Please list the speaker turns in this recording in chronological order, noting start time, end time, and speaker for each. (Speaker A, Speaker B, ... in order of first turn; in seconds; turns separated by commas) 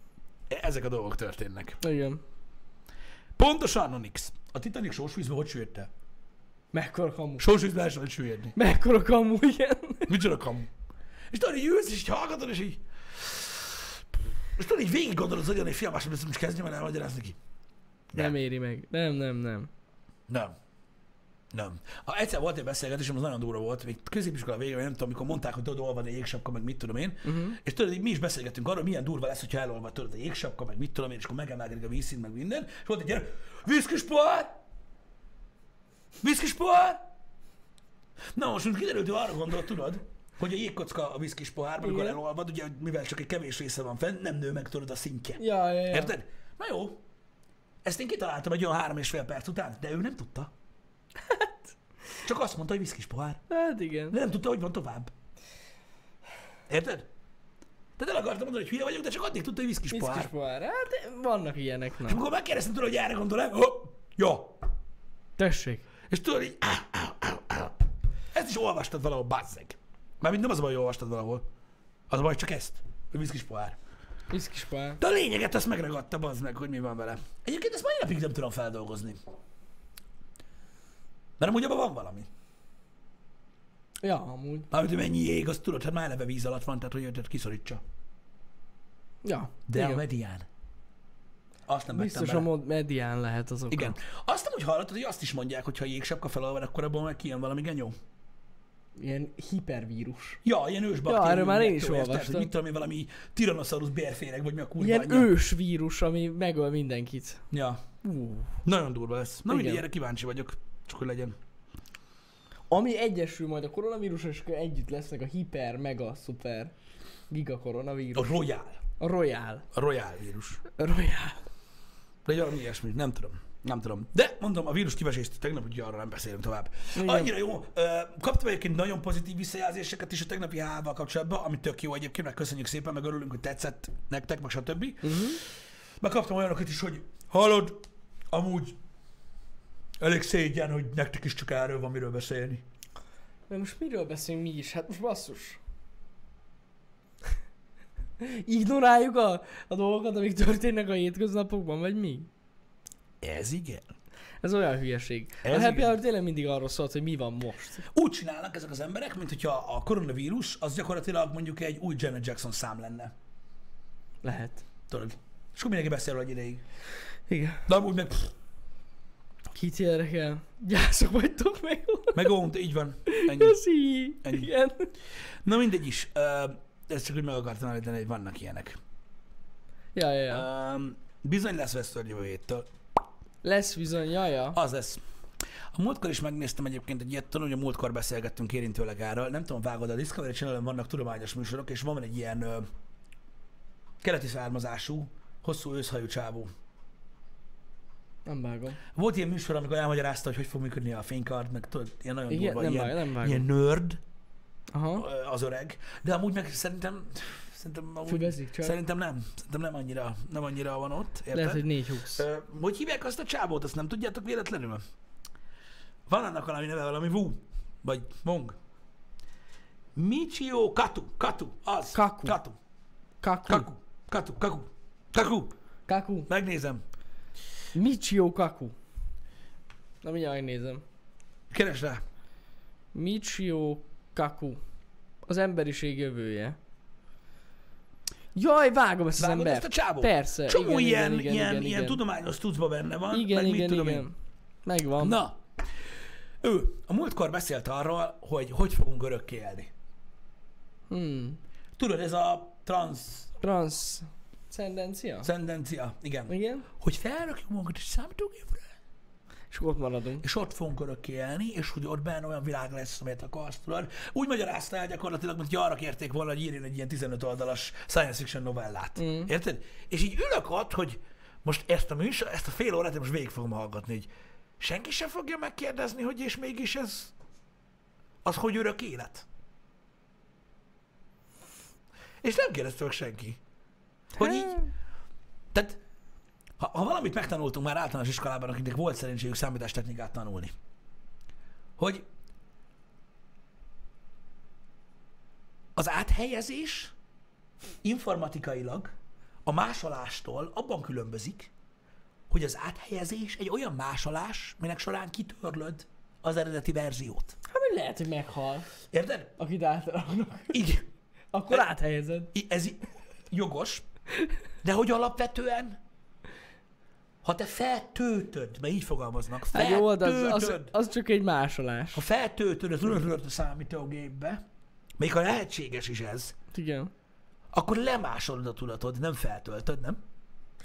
Speaker A: 0.5-1.8, Speaker B: 1.8-2.2, Speaker A: 3.4-5.9, Speaker B: 6.7-7.4, Speaker A: 7.4-8.6, Speaker B: 8.6-10.1, Speaker A: 10.1-10.7, Speaker A: 11.3-13.9, Speaker A: 14.6-17.4, Speaker B: 18.1-19.7, Speaker A: 20.3-20.5, Speaker A: 21.5-34.5, Speaker B: 27.2-27.6, Speaker A: 36.2-37.0, Speaker A: 38.3-47.0, Speaker B: 41.8-42.2, Speaker B: 45.4-46.1, Speaker A: 47.8-50.5, Speaker B: 51.2-51.5, Speaker A: 52.2-53.4, Speaker B: 53.5-54.1, Speaker A: 54.1-55.1, Speaker A: 56.7-57.0, Speaker A: 58.0-60.3, Speaker B: 59.9-62.2, Speaker A: 62.0-64.6, Speaker B: 65.4-65.8, Speaker A: 66.1-67.8, Speaker A: 68.3-71.4, Speaker A: 72.1-73.8, Speaker B: 74.3-75.0, Speaker A: 75.0-79.2, Speaker A: 81.4-82.3, Speaker B: 84.0-84.7, Speaker A: 84.7-87.8, Speaker B: 89.2-90.0, Speaker A: 89.7-90.5, Speaker A: 91.7-92.5, Speaker B: 91.9-94.0, Speaker A: 93.7-98.0, Speaker B: 99.0-100.4, Speaker A: 100.4-105.3, Speaker B: 101.0-102.5, Speaker B: 104.8-107.4, Speaker A: 107.5-107.8, Speaker B: 108.0-108.6, Speaker A: 108.6-111.4, Speaker B: 109.5-109.8, Speaker B: 112.7-116.7, Speaker B: 117.3-118.3, Speaker A: 118.1-118.8, Speaker B: 119.0-119.7, Speaker A: 119.7-120.6, Speaker B: 120.7-121.4, Speaker A: 122.2-135.5, Speaker B: 126.9-127.3, Speaker B: 135.0-135.4, Speaker A: 136.0-138.8, Speaker A: 140.0-142.6, Speaker B: 143.5-145.6, Speaker B: 148.2-152.3, Speaker A: 153.2-153.9, Speaker B: 154.4-157.8, Speaker A: 155.4-156.0, Speaker A: 157.9-163.1, Speaker B: 164.2-164.6, Speaker A: 164.9-166.6, Speaker B: 167.3-167.7, Speaker A: 167.7-168.3, Speaker B: 169.5-172.3, Speaker A: 172.1-173.6, Speaker B: 173.1-174.9, Speaker A: 174.2-174.5, Speaker A: 175.4-178.8, Speaker B: 179.9-180.4, Speaker A: 180.3-182.7, Speaker B: 183.4-184.6, Speaker A: 184.5-185.0, Speaker A: 185.7-192.7, Speaker A: 194.0-196.5, Speaker B: 198.2-198.8, Speaker A: 198.9-204.0, Speaker B: 202.3-203.4, Speaker B: 204.7-205.1, Speaker A: 204.9-214.8, Speaker B: 208.1-208.8, Speaker B: 211.3-212.2, Speaker A: 216.1-218.6, Speaker A: 219.9-222.6, Speaker B: 221.9-222.4, Speaker B: 223.2-223.7, Speaker A: 223.5-225.5, Speaker B: 225.9-226.3, Speaker A: 226.3-226.8, Speaker B: 227.7-228.7, Speaker B: 230.0-230.8, Speaker A: 231.5-232.0, Speaker B: 232.9-234.6, Speaker B: 235.3-236.6, Speaker B: 238.3-242.0, Speaker A: 239.2-244.1, Speaker B: 243.1-245.2, Speaker A: 245.0-245.4, Speaker A: 246.4-249.7, Speaker B: 250.9-251.4, Speaker A: 251.8-253.3, Speaker B: 253.4-255.3, Speaker A: 255.2-258.7, Speaker B: 256.3-256.7, Speaker B: 259.5-260.2, Speaker A: 260.2-274.1, Speaker B: 269.0-269.3, Speaker A: 274.6-277.1, Speaker A: 278.2-279.2, Speaker A: 282.2-283.4, Speaker B: 284.2-284.7, Speaker A: 284.2-284.6, Speaker A: 285.5-285.8, Speaker A: 286.6-290.5, Speaker A: 291.8-292.0, Speaker A: 295.8-296.9, Speaker A: 297.8-298.9, Speaker A: 299.4-301.5, Speaker A: 302.3-307.3, Speaker B: 307.5-308.7, Speaker A: 308.9-309.3, Speaker B: 309.4-310.6, Speaker A: 310.5-310.9, Speaker B: 311.3-312.3, Speaker A: 312.3-313.8, Speaker A: 314.6-315.8, Speaker A: 317.2-320.7, Speaker B: 319.5-322.0, Speaker A: 321.9-324.4, Speaker A: 325.0-326.3, Speaker B: 326.5-326.9, Speaker A: 327.5-330.0